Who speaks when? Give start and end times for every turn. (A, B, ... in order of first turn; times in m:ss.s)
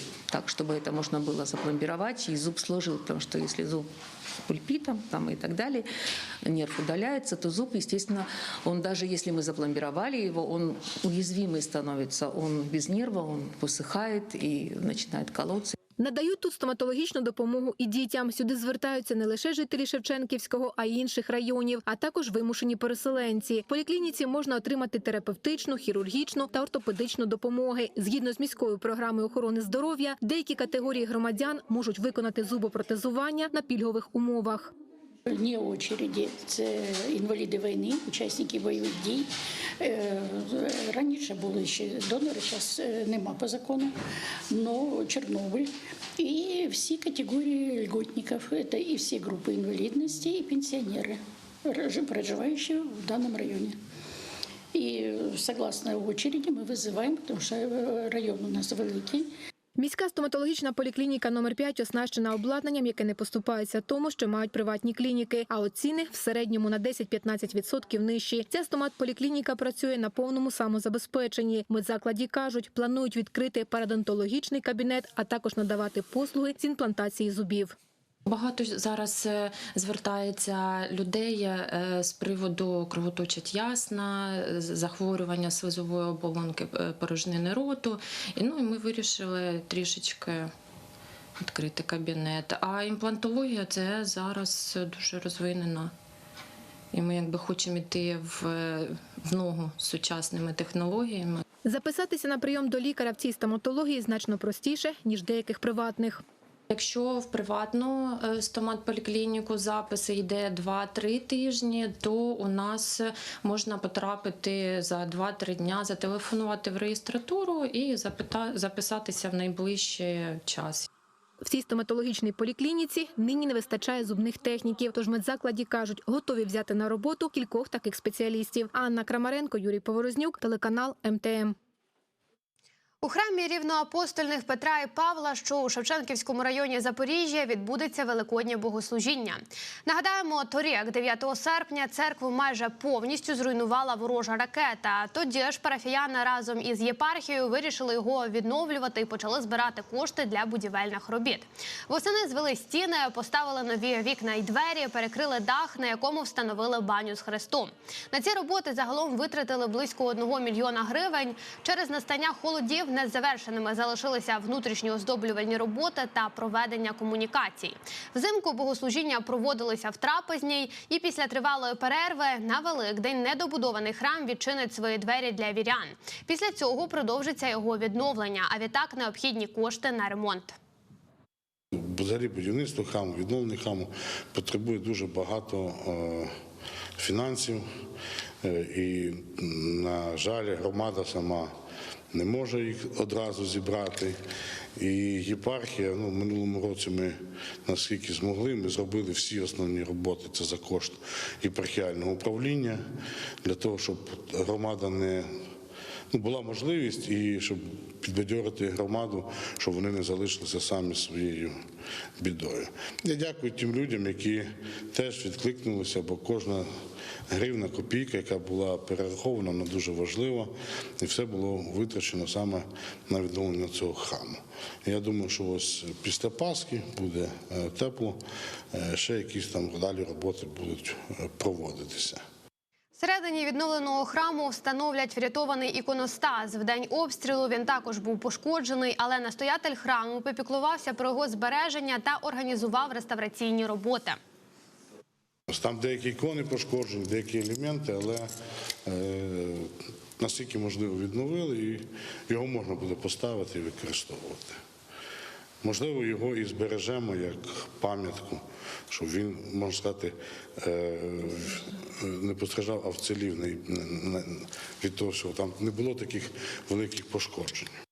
0:00.3-0:03.8 A
0:04.5-0:05.8 A
0:06.4-0:15.7 A
0:16.0-0:34.7 B
0:35.3-0:39.3 C
0:39.8-0:43.9 C
0:44.5-0:53.8 C
0:54.7-0:59.3 C
0:59.8-1:17.7 B
1:18.2-1:30.5 D
1:31.4-1:35.9 D
1:36.9-1:41.4 D
1:41.6-1:46.2 B
1:46.7-2:00.9 D
2:01.4-2:11.6 B
2:13.0-3:00.6 E
3:01.7-3:06.3 F
3:07.0-3:07.7 F
3:08.4-3:11.5 F
3:12.1-3:14.2 F
3:14.8-3:22.8 F
3:23.4-3:25.4 F
3:26.1-3:31.6 F
3:32.2-3:36.7 F
3:37.3-3:48.2 F
3:48.7-3:52.2 F
3:53.0-4:04.2 E
4:05.5-4:08.3 F
4:08.8-4:14.6 F
4:15.6-4:27.7 F